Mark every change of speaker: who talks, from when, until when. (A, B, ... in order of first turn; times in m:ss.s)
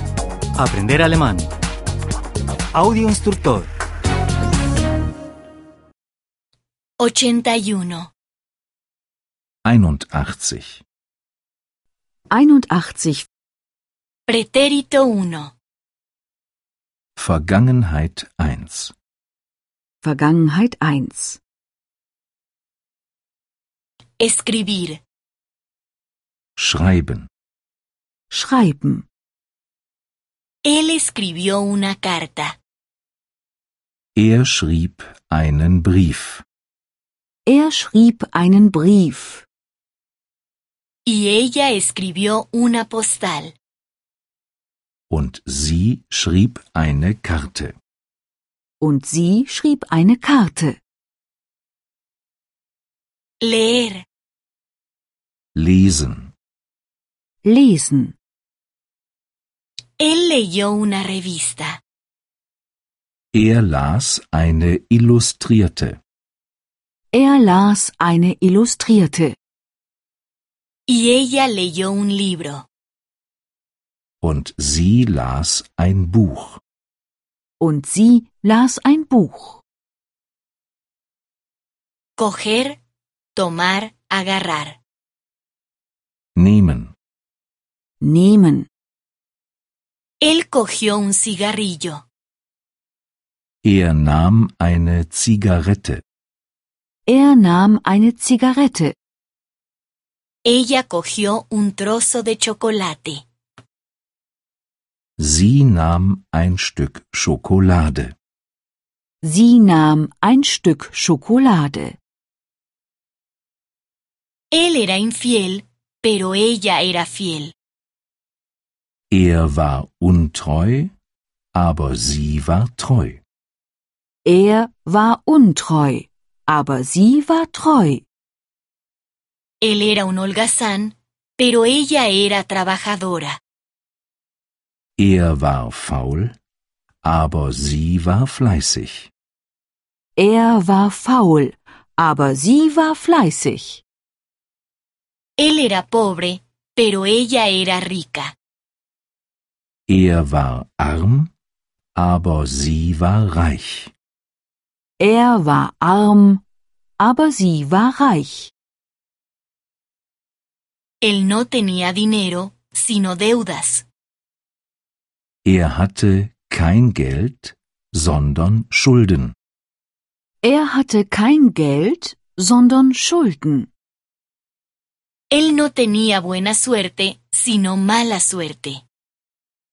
0:00.6-0:01.5 A
0:02.7-0:03.7 A
0:07.0-0:08.1 B
0:09.6-0:10.8 C
0:12.3-0:13.3 D
0:14.3-0:15.5 B
0:17.2-0:18.9 C
0:20.0-0:21.4 D
0:24.2-0:25.0 B
0:26.6-0:27.3 C
0:28.3-0:29.0 D
0:30.7-0:32.6 B
0:34.2-0:36.4 C
0:37.4-0:39.4 D
0:41.1-0:43.5 B
0:45.1-0:47.7 C
0:48.8-0:50.8 D
0:53.4-0:54.0 B
0:55.6-0:56.3 C
0:57.4-0:58.1 D
1:00.0-1:01.8 B
1:03.3-1:06.0 C
1:07.1-1:09.4 D
1:10.9-1:12.7 B
1:14.2-1:16.6 C
1:17.6-1:19.6 D
1:22.2-1:22.8 B
1:23.3-1:24.8 B
1:26.4-1:27.0 C
1:28.0-1:28.7 D
1:30.2-1:32.0 B
1:33.6-1:36.0 C
1:37.1-1:39.0 D
1:40.5-1:43.2 B
1:45.2-1:48.1 C
1:49.2-1:52.0 D
1:54.5-1:57.5 B
1:59.1-2:00.9 C
2:01.6-2:03.2 C
2:04.2-2:08.0 D
2:09.6-2:13.4 B
2:15.0-2:16.4 C
2:17.0-2:19.1 C
2:20.2-2:23.8 D
2:25.4-2:28.3 B
2:29.9-2:31.3 C
2:32.0-2:33.9 C
2:35.0-2:36.4 D
2:37.0-2:38.5 D
2:41.0-2:43.9 B
2:45.4-2:49.3 C
2:50.4-2:53.7 D
2:55.3-2:58.8 B